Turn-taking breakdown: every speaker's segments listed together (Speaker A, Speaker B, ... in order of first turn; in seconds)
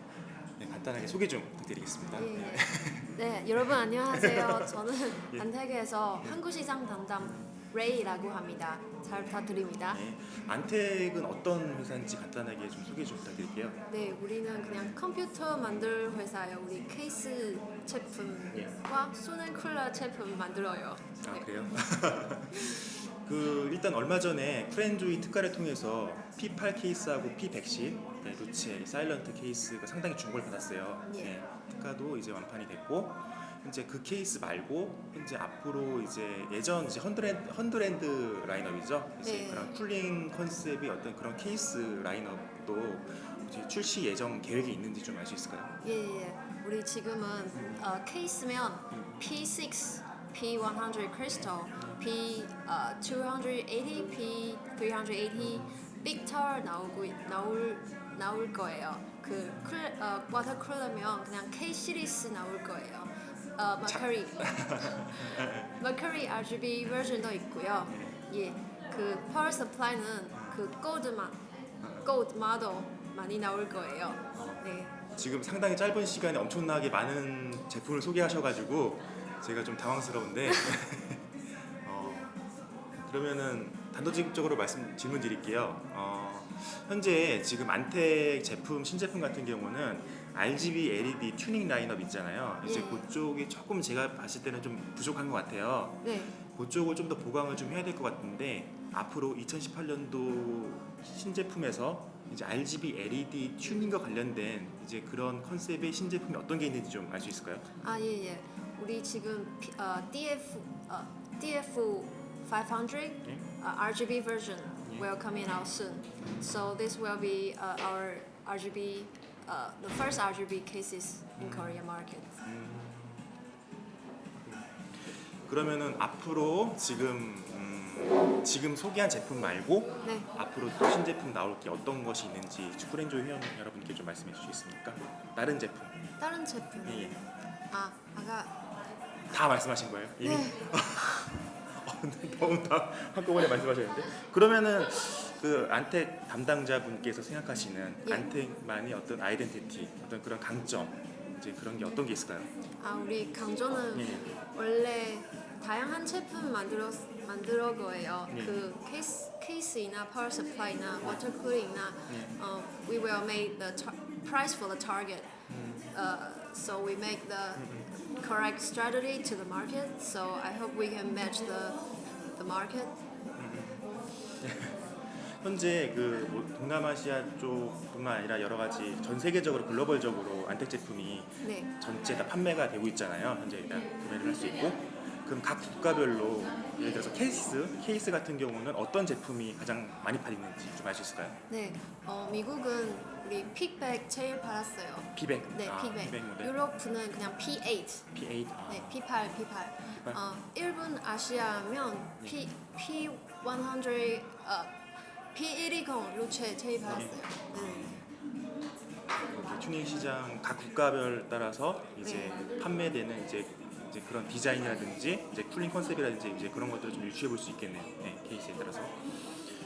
Speaker A: 0.6-4.7, 7.2-7.5, 9.8-13.8, 21.2-45.8, 47.5-47.8, 48.9-49.2, 51.3-52.0, 63.9-65.8, 67.9-68.2, 71.8-72.1, 74.3-82.3, 83.0-107.7, 116.2-116.7, 121.4-121.8, 122.4-123.2, 124.4-136.0, 136.8-137.2, 139.3-152.5, 153.9-154.3, 158.3-158.6, 162.1-162.4, 165.5-165.9, 167.6-167.9, 173.4-173.8, 174.4-191.4, 195.1-196.5, 198.1-198.9, 206.9-208.1, 209.3-219.3
Speaker B: 2.1-10.0, 13.9-21.5, 31.1-31.3, 39.2-39.7, 45.8-65.2, 65.8-71.4, 72.0-74.9, 92.6-93.0, 96.0-96.3, 107.8-122.3, 130.0-130.3, 136.2-138.6, 140.2-140.6, 148.1-148.3, 152.8-165.3, 165.9-171.8, 172.3-172.9, 181.4-181.7, 191.5-198.1, 198.7-204.8, 205.3-207.9, 212.0-212.3